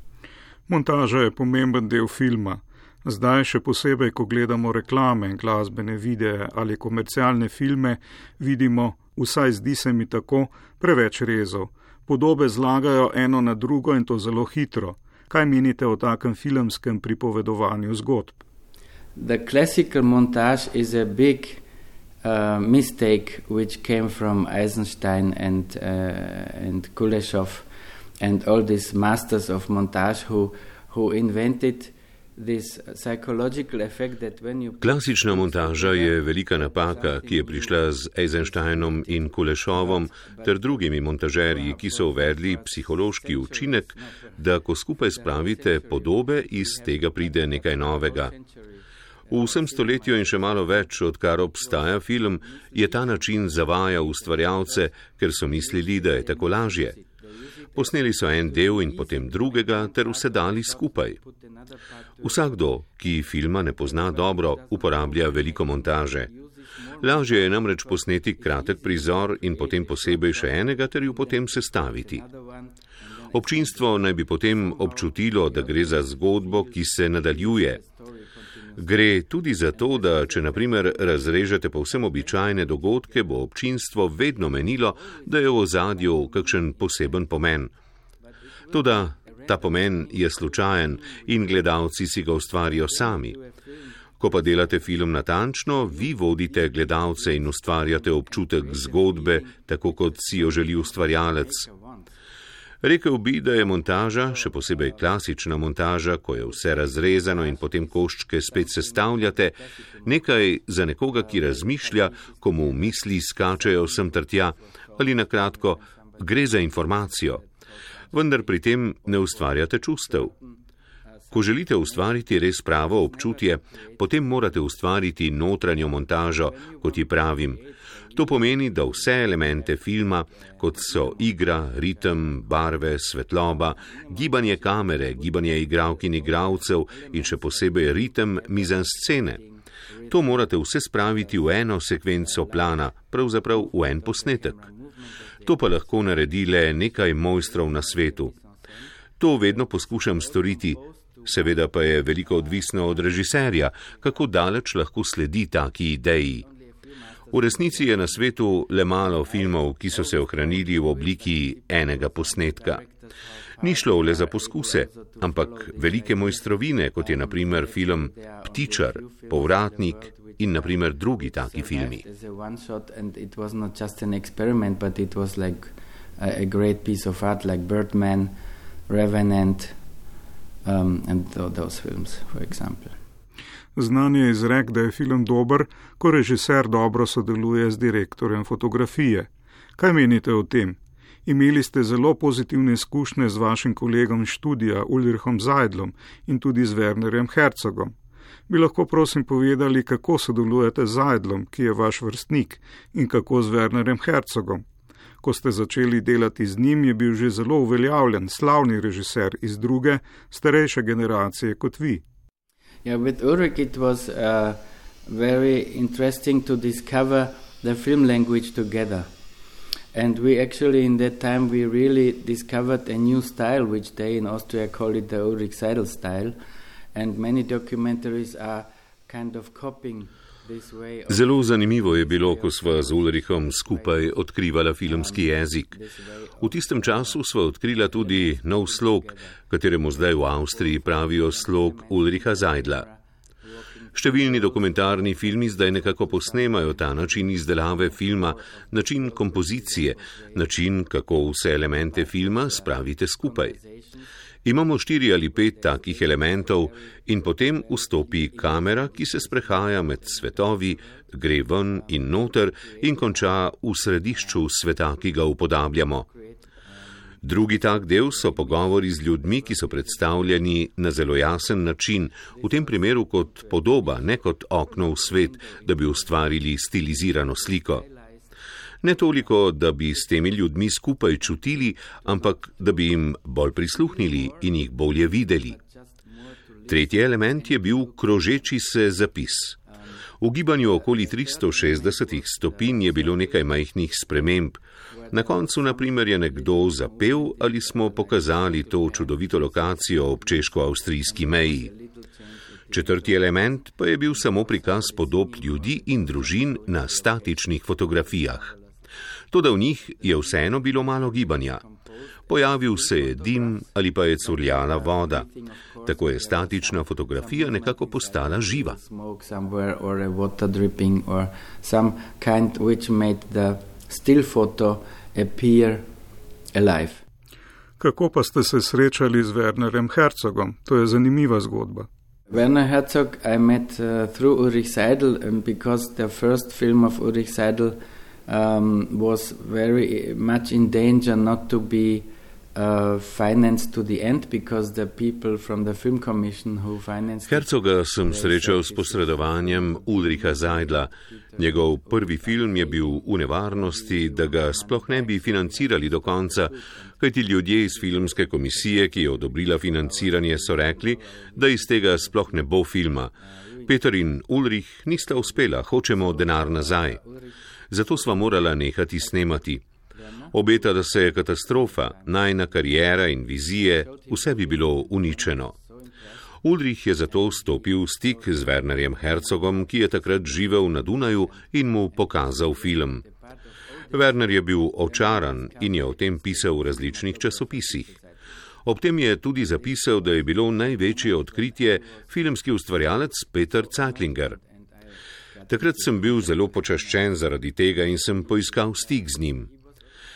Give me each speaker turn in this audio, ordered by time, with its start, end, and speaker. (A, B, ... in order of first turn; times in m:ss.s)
0:00.7-0:18.4 A
0:19.2-0:21.6 B
0:22.2-0:27.7 B
0:28.2-0:44.4 B
0:34.8-0:48.3 C
0:45.0-1:23.5 B
0:49.3-0:57.0 C
0:57.8-1:01.2 C
1:02.2-1:06.3 C
1:07.0-1:12.2 C
1:13.3-1:17.8 C
1:18.8-1:27.7 C
1:24.4-1:27.3 B
1:28.3-1:31.8 B
1:28.7-1:33.4 C
1:32.5-1:34.9 B
1:34.2-1:41.7 C
1:35.7-1:42.1 B
1:42.8-1:57.4 C
1:44.2-1:45.0 B
1:46.5-1:50.4 B
1:51.1-2:00.6 B
1:58.1-2:00.3 C
2:01.3-2:02.2 B
2:01.3-2:07.6 C
2:03.0-2:04.8 B
2:05.8-2:12.5 B
2:08.1-2:19.4 C
2:13.6-2:22.8 B
2:20.1-2:24.7 C
2:23.5-2:34.3 B
2:25.5-2:28.3 C
2:29.2-2:36.4 C
2:36.4-2:38.4 B
2:37.3-2:42.8 C
2:38.9-2:58.4 B
2:43.6-2:52.0 C
2:58.9-2:59.8 B
3:00.6-3:03.0 B
3:03.8-3:17.9 A
3:18.5-3:24.6 A
3:25.2-3:32.0 A
3:32.8-3:39.1 B
3:39.9-3:46.4 B
3:46.9-3:54.1 B
3:51.1-3:55.8 C
3:54.8-4:10.6 B
3:56.4-4:02.9 C
4:04.0-4:13.6 C
4:11.6-4:14.1 B
4:14.4-4:26.1 C
4:15.2-4:21.1 B
4:21.7-4:23.5 B
4:24.1-4:24.5 B
4:26.1-4:30.5 B
4:27.2-4:37.8 C
4:32.3-4:38.3 B
4:38.8-4:45.6 C
4:38.9-4:39.3 B
4:42.2-4:42.7 B
4:43.9-4:44.6 B
4:45.2-4:48.8 B
4:46.7-4:49.6 C
4:50.2-4:54.6 C
4:50.6-4:53.5 B
4:54.9-5:08.8 B
4:55.1-5:01.7 C
5:02.7-5:08.6 C
5:09.3-5:11.6 C
5:09.8-5:25.9 B
5:12.3-5:15.3 C
5:15.8-5:18.8 C
5:26.5-5:27.0 B
5:27.8-5:31.9 A
5:32.3-5:47.5 B
5:47.3-6:03.1 C
5:48.0-6:02.5 B
6:03.4-6:03.8 B
6:03.7-6:07.0 C
6:05.8-6:08.2 B
6:07.7-6:09.6 C
6:09.0-6:09.3 B
6:09.9-6:16.2 B
6:10.3-6:15.5 C
6:16.4-6:23.0 C
6:17.0-6:28.2 B
6:23.9-6:27.9 C
6:28.6-6:34.4 C
6:29.3-6:32.4 B
6:33.5-6:39.6 B
6:35.5-6:39.5 C